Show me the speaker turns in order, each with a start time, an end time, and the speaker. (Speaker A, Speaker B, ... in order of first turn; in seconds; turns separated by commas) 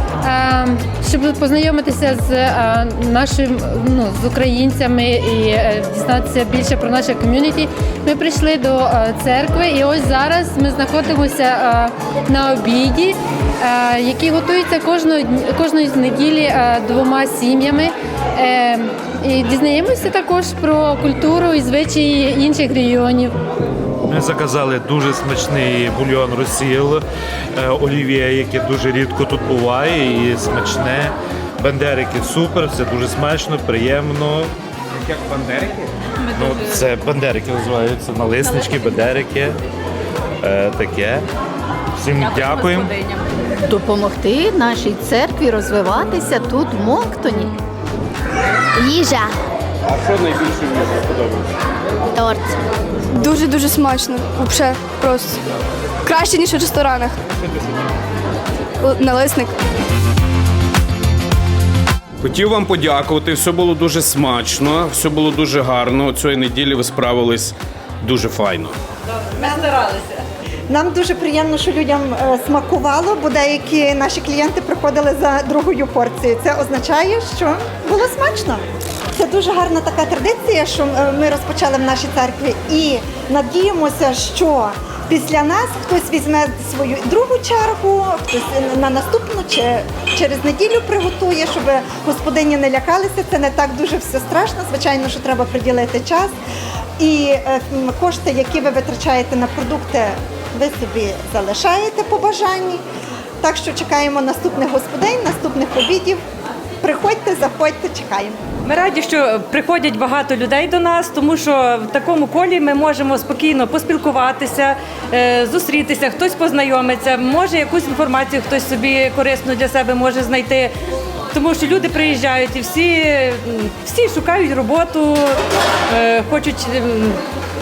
Speaker A: 0.2-23.3, Speaker B: 24.0-27.0, Speaker B: 27.6-34.5, Speaker B: 35.3-35.7, Speaker B: 36.3-39.6, Speaker B: 40.4-41.3, Speaker B: 42.0-42.9, Speaker C: 43.7-47.6, Speaker D: 48.9-49.3, Speaker E: 49.9-51.5, Speaker D: 52.1-52.6, Speaker D: 53.1-55.4, Speaker D: 56.0-57.1, Speaker D: 58.8-59.5, Speaker E: 62.2-68.7, Speaker F: 69.4-70.0, Speaker F: 70.7-96.3, Speaker F: 97.0-102.8, Speaker F: 103.4-106.2, Speaker F: 106.8-108.4, Speaker G: 108.7-120.7, Speaker G: 121.3-127.2